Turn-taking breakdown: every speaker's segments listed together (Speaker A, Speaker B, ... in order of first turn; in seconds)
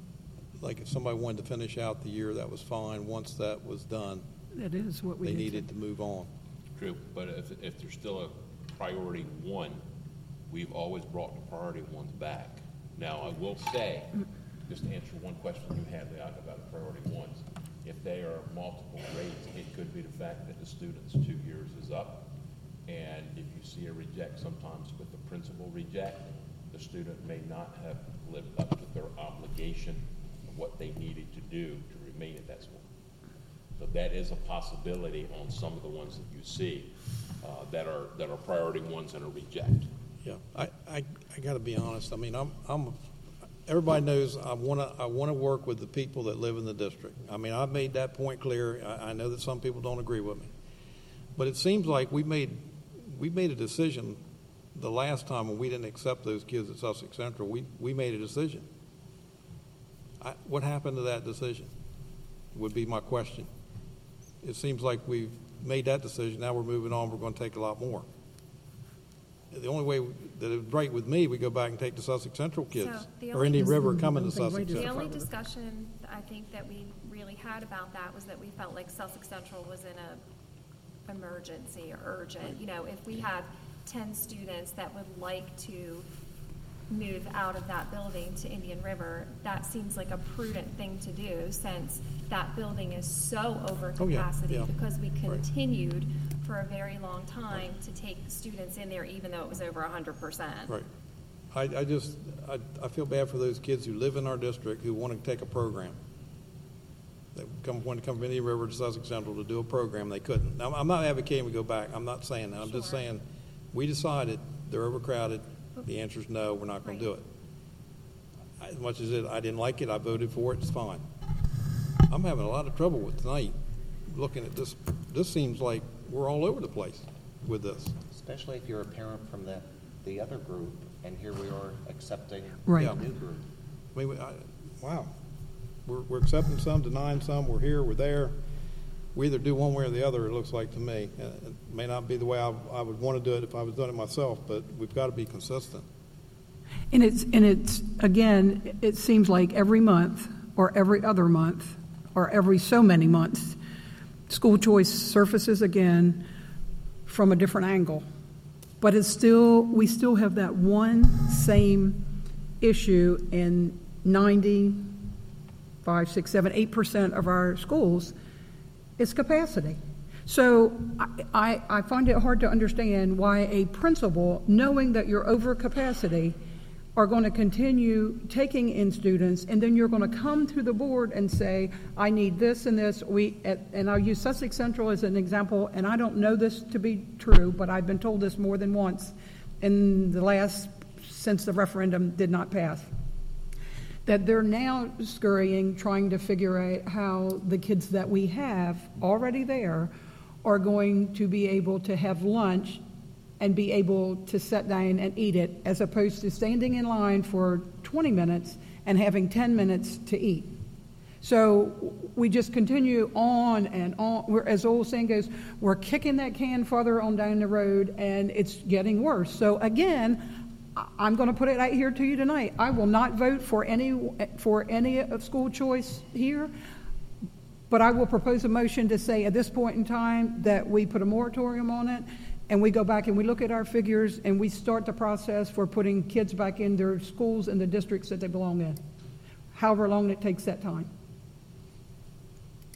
Speaker A: 0.6-4.2, 5.2-6.3, 40.2-43.0, 43.6-50.5, 51.4-54.2, 54.7-58.6, 60.2-61.7, 62.5-63.5, 64.4-68.0, 69.5-75.1, 94.0-94.7, 101.5-106.0, 107.3-117.2, 118.6-121.0, 122.1-123.5, 124.1-128.0, 133.9-135.1, 135.8-138.3, 139.1-145.8
Speaker B: 4.5-5.7, 73.5-75.3, 146.9-153.6, 154.3-156.2, 157.1-158.0, 158.8-162.0, 162.6-164.9, 165.8-168.1, 169.0-176.4, 176.9-192.9, 194.1-199.9, 200.4-202.8, 203.4-210.5, 211.2-226.5, 227.7-238.8, 239.5-240.9
Speaker C: 6.8-9.8, 10.5-14.1, 14.7-22.3, 22.9-32.8, 33.8-39.9
Speaker D: 72.7-74.0, 74.7-80.2, 81.0-86.0, 86.9-100.7, 112.6-113.1, 116.8-117.1
Speaker E: 128.1-133.4